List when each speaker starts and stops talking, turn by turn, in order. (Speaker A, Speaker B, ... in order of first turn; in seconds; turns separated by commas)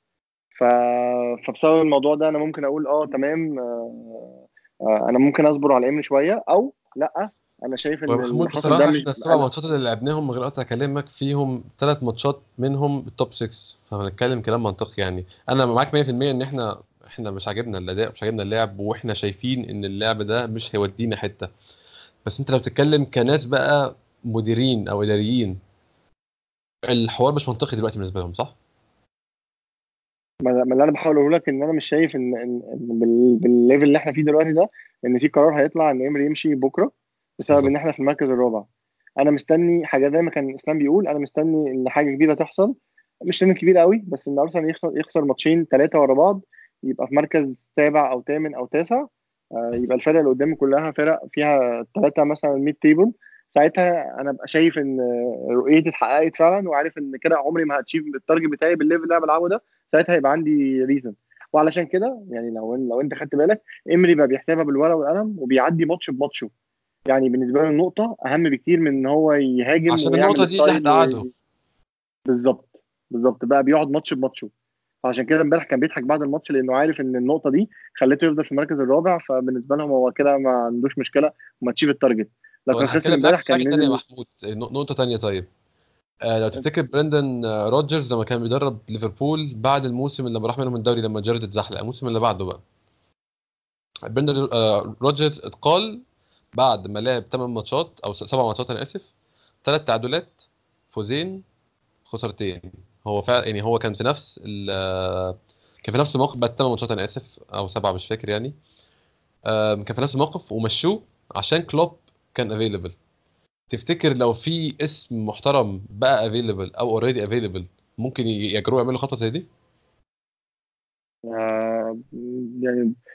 Speaker A: 0.6-4.3, Speaker A: 4.9-9.5, Speaker B: 8.1-21.5, Speaker B: 22.2-25.6, Speaker B: 26.9-28.5, Speaker A: 30.4-38.6, Speaker A: 39.2-42.7, Speaker A: 43.2-49.1, Speaker A: 49.6-66.5, Speaker A: 67.1-71.2, Speaker B: 69.9-71.3, Speaker A: 72.3-74.5, Speaker A: 75.0-84.0, Speaker B: 82.7-85.5, Speaker B: 86.3-92.6, Speaker B: 94.1-96.0, Speaker B: 96.5-99.1, Speaker B: 99.6-100.4, Speaker B: 100.9-101.4, Speaker B: 102.1-108.5, Speaker B: 109.5-112.9, Speaker B: 113.7-119.5, Speaker A: 121.3-122.9